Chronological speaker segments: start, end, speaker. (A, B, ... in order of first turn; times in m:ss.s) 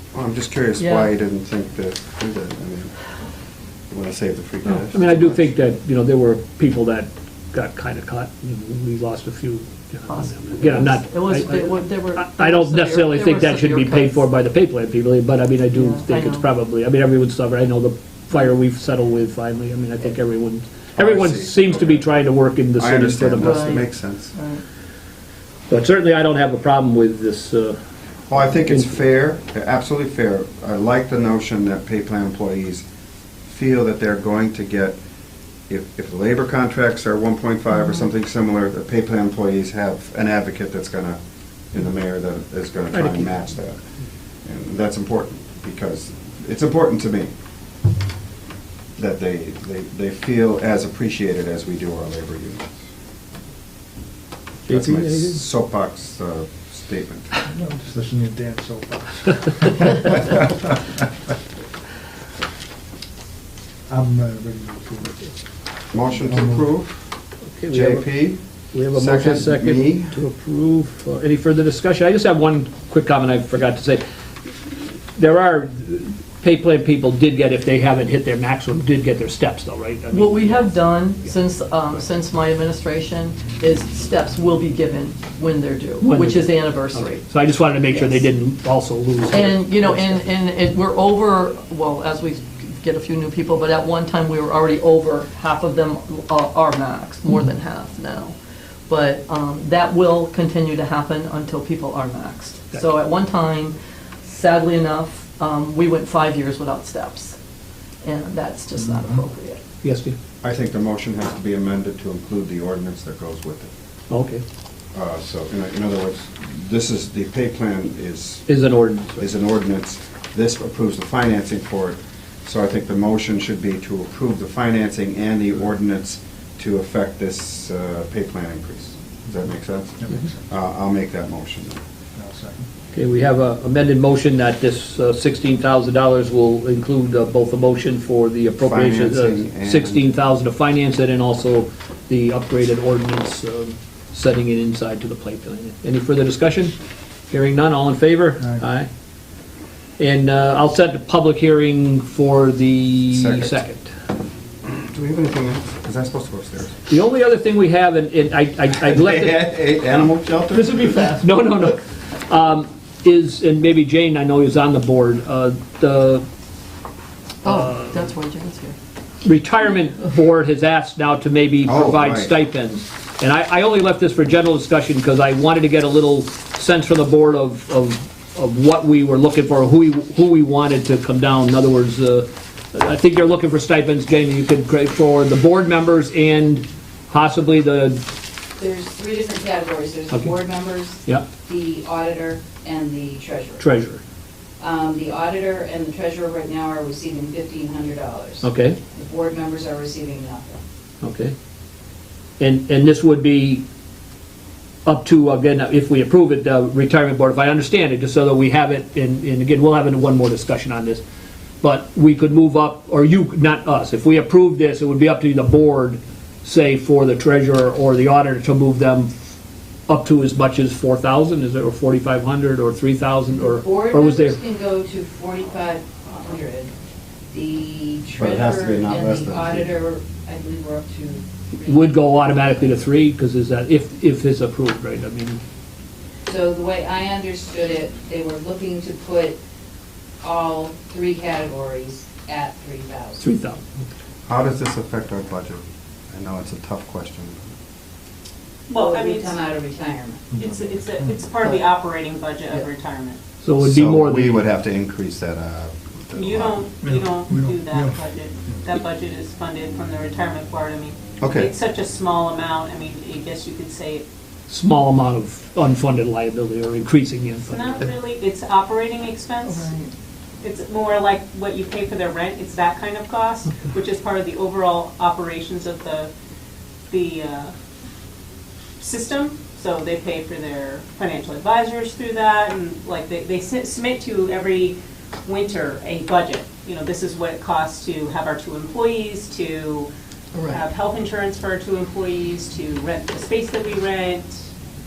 0:00.1-0:03.0 A
0:00.8-0:01.1 B
0:03.9-0:05.5 A
0:04.6-0:23.7 C
0:10.1-0:14.3 B
0:15.7-0:16.5 B
0:21.0-0:22.1 A
0:22.8-0:24.3 A
0:23.4-0:24.6 B
0:25.7-0:27.8 C
0:28.3-0:32.8 A
0:28.6-0:29.0 C
0:33.5-0:35.0 A
0:35.7-0:41.2 A
0:41.7-0:43.8 A
0:42.9-0:43.3 C
0:44.4-0:47.3 A
0:49.0-0:52.8 A
0:54.6-0:55.4 C
0:54.6-0:57.3 A
0:57.5-1:01.1 D
1:03.9-1:05.4 D
1:05.9-1:07.1 A
1:06.2-1:06.7 D
1:07.5-1:08.1 C
1:07.7-1:10.2 A
1:08.7-1:20.7 C
1:20.1-1:27.2 B
1:26.0-1:30.2 C
1:29.3-1:38.4 B
1:38.9-1:47.4 B
1:48.0-1:49.6 B
1:48.7-1:49.2 D
1:49.8-1:50.2 C
1:50.4-1:53.7 A
1:54.1-1:54.4 C
1:54.9-1:58.6 A
1:58.5-1:59.2 C
1:59.1-2:11.8 A
2:09.2-2:10.5 D
2:12.1-2:12.7 D
2:12.9-2:26.7 C
2:18.6-2:20.1 A
2:27.3-2:28.9 C
2:28.4-2:28.7 D
2:30.0-2:33.9 C
2:33.1-2:33.6 A
2:34.6-2:36.8 A
2:36.9-2:39.4 C
2:38.8-2:40.9 A
2:40.5-2:46.2 C
2:47.4-2:48.8 B
2:47.4-2:48.1 C
2:49.2-3:08.0 C
2:51.6-2:52.3 A
3:08.6-3:13.7 E
3:13.6-3:14.0 C
3:14.6-3:20.6 E
3:18.4-3:18.8 C
3:21.0-3:21.3 C
3:22.4-3:23.6 C
3:24.8-3:31.0 C
3:31.6-3:39.1 C
3:39.9-3:44.4 C
3:43.4-3:46.7 E
3:47.3-3:52.0 E
3:48.2-3:49.8 A
3:51.6-3:55.4 C
3:56.3-3:59.4 E
4:00.2-4:03.2 E
4:03.2-4:03.8 C
4:04.2-4:07.5 A
4:08.7-4:09.4 F
4:08.7-4:10.3 E
4:10.3-4:11.4 D
4:10.3-4:13.2 F
4:13.4-4:14.4 C
4:13.6-4:16.6 A
4:16.2-4:24.0 F
4:16.8-4:18.7 D
4:21.2-4:21.5 A
4:24.5-4:27.9 C
4:27.4-4:29.7 F
4:29.4-4:29.9 B
4:30.4-4:36.1 F
4:36.9-4:37.5 F
4:38.8-4:49.9 F
4:50.3-4:50.6 B
4:50.4-4:54.4 F